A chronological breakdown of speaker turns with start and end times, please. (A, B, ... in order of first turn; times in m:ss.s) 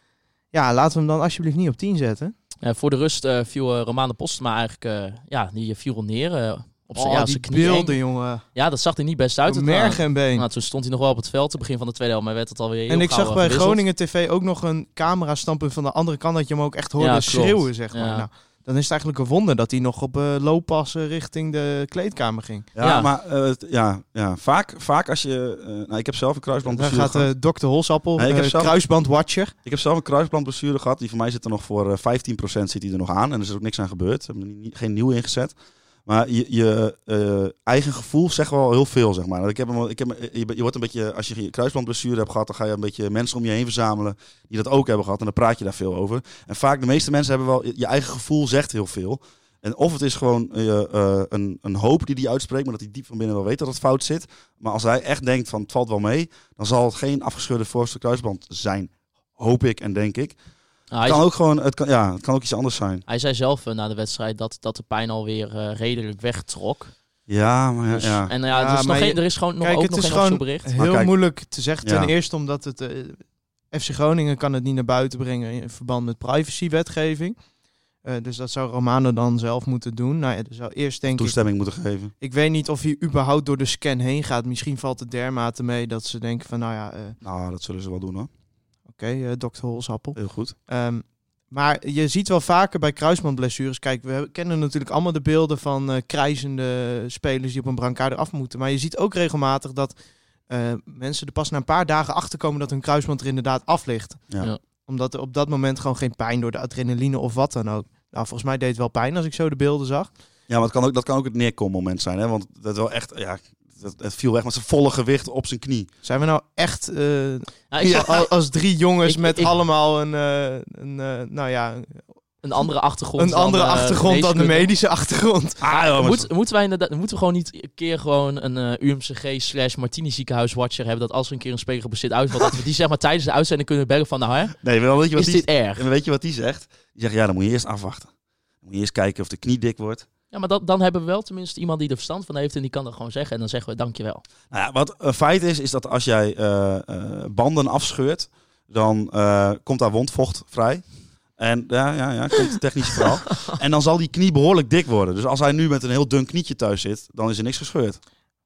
0:00.5-0:02.3 A
0:02.6-0:08.0 B
0:07.0-0:08.4 A
0:08.5-0:13.8 B
0:09.4-0:10.4 A
0:12.9-0:22.7 A
0:17.0-0:18.2 B
0:22.7-0:27.3 C
0:22.8-0:23.1 B
0:26.6-0:29.5 A
0:28.2-0:28.7 C
0:29.6-0:35.5 C
0:36.0-1:00.4 C
1:00.9-1:01.2 B
1:01.0-1:03.0 C
1:03.1-1:06.9 B
1:07.3-1:08.3 C
1:07.9-1:10.7 B
1:08.5-1:17.4 A
1:10.8-1:11.1 C
1:11.8-1:12.1 C
1:18.0-1:21.4 A
1:21.1-1:22.1 C
1:22.2-1:27.2 A
1:27.2-1:28.3 C
1:28.9-1:39.9 A
1:30.2-1:30.5 C
1:40.5-1:44.3 A
1:44.8-1:50.1 A
1:50.5-1:55.9 C
1:56.0-2:02.0 A
1:57.7-1:58.2 B
1:57.8-1:58.2 C
1:59.0-1:59.5 B
2:02.4-2:04.7 B
2:03.2-2:05.6 A
2:05.6-2:06.3 C
2:05.7-2:14.6 B
2:14.6-2:18.1 C
2:15.1-2:15.8 B
2:18.6-2:20.0 C
2:20.3-2:24.2 B
2:24.5-2:30.8 C
2:31.4-2:38.0 C